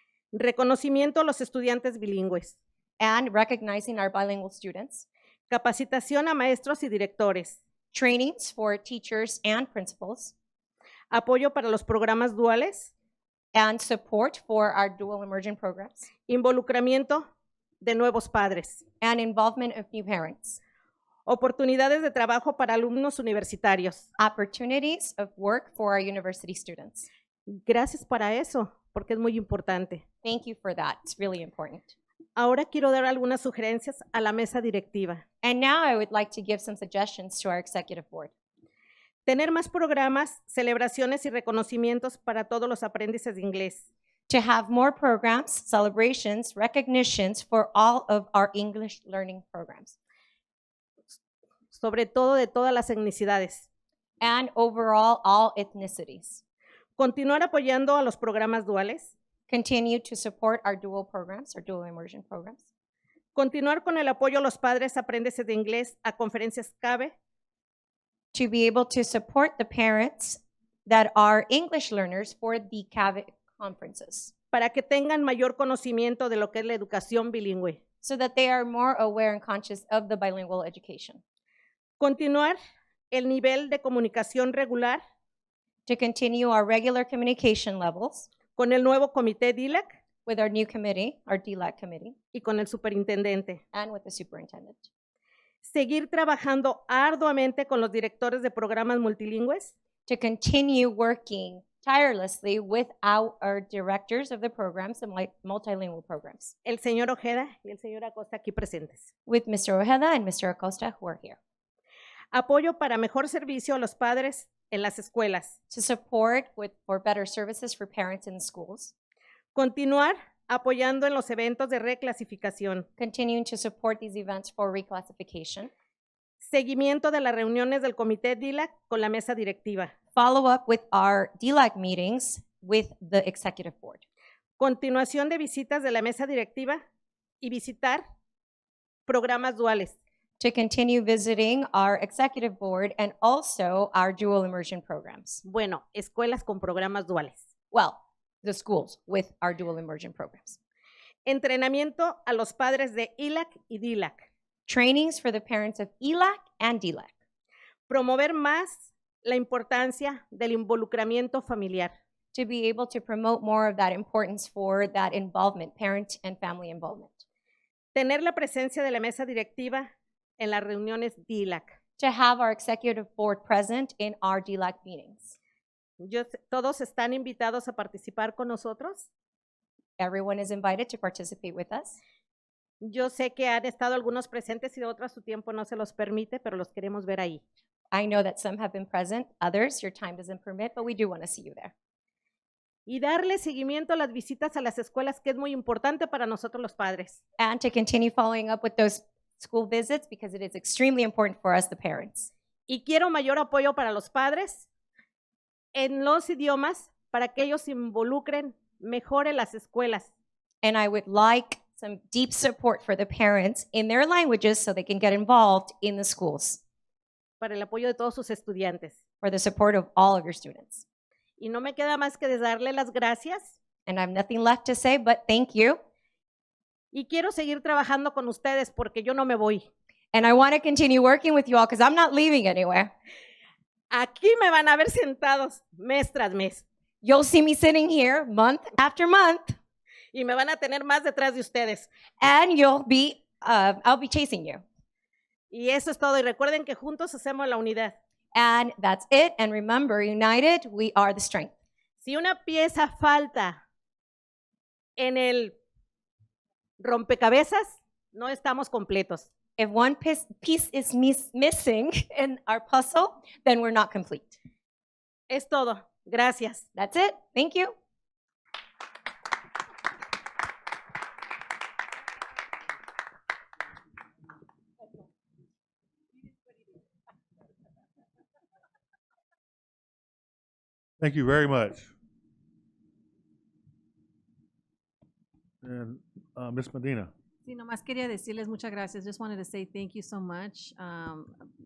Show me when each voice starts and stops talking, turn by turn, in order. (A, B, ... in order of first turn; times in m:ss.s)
0:00.3-0:02.6 A
0:03.0-0:05.1 B
0:05.5-0:07.6 A
0:07.9-0:10.3 B
0:11.1-0:12.9 A
0:13.6-0:16.1 B
0:16.3-0:17.2 A
0:17.8-0:18.8 A
0:19.0-0:20.6 B
0:21.3-0:24.1 A
0:24.2-0:27.1 B
0:27.5-0:30.0 A
0:30.2-0:31.9 B
0:32.4-0:35.2 A
0:35.4-0:38.3 B
0:39.3-0:43.8 A
0:44.3-0:50.0 B
0:51.7-0:53.7 A
0:54.2-0:56.4 B
0:57.0-0:59.1 A
0:59.5-1:02.7 B
1:03.4-1:07.1 A
1:08.3-1:14.3 B
1:14.5-1:17.8 A
1:18.0-1:21.2 B
1:22.0-1:22.6 A
1:23.1-1:25.0 A
1:25.9-1:28.3 B
1:28.6-1:29.9 A
1:30.3-1:32.2 B
1:32.3-1:33.6 A
1:33.7-1:34.8 B
1:35.6-1:39.7 A
1:40.1-1:46.5 B
1:46.6-1:49.1 A
1:49.3-1:51.4 B
1:52.3-1:55.6 A
1:55.7-1:58.9 B
1:59.6-2:02.9 A
2:03.0-2:05.7 B
2:06.5-2:09.9 A
2:10.2-2:14.0 B
2:14.6-2:16.8 A
2:17.4-2:18.0 A
2:19.1-2:20.0 A
2:20.4-2:25.4 B
2:25.4-2:27.4 A
2:27.7-2:30.6 B
2:31.3-2:34.3 A
2:34.7-2:37.1 B
2:37.9-2:41.9 A
2:42.3-2:47.2 B
2:48.0-2:51.8 A
2:52.0-2:55.4 B
2:56.0-2:59.1 A
3:00.0-3:02.0 B
3:02.8-3:07.4 A
3:07.9-3:11.7 B
3:12.9-3:17.2 A
3:17.4-3:22.3 B
3:22.7-3:24.7 A
3:25.8-3:30.1 A
3:30.6-3:36.6 B
3:37.4-3:39.0 A
3:39.2-3:40.8 B
3:41.4-3:43.6 A
3:43.9-3:45.8 B
3:46.9-3:49.7 A
3:50.1-3:52.9 B
3:53.9-3:56.6 A
3:57.0-3:59.6 B
4:00.1-4:01.9 A
4:02.2-4:04.6 B
4:05.5-4:07.9 A
4:08.4-4:11.5 B
4:12.0-4:13.6 A
4:15.0-4:15.6 A
4:16.8-4:19.3 A
4:19.6-4:24.4 B
4:25.3-4:26.6 A
4:26.8-4:27.7 B
4:41.0-4:41.9 C
4:45.6-4:47.1 C
4:47.5-4:51.3 D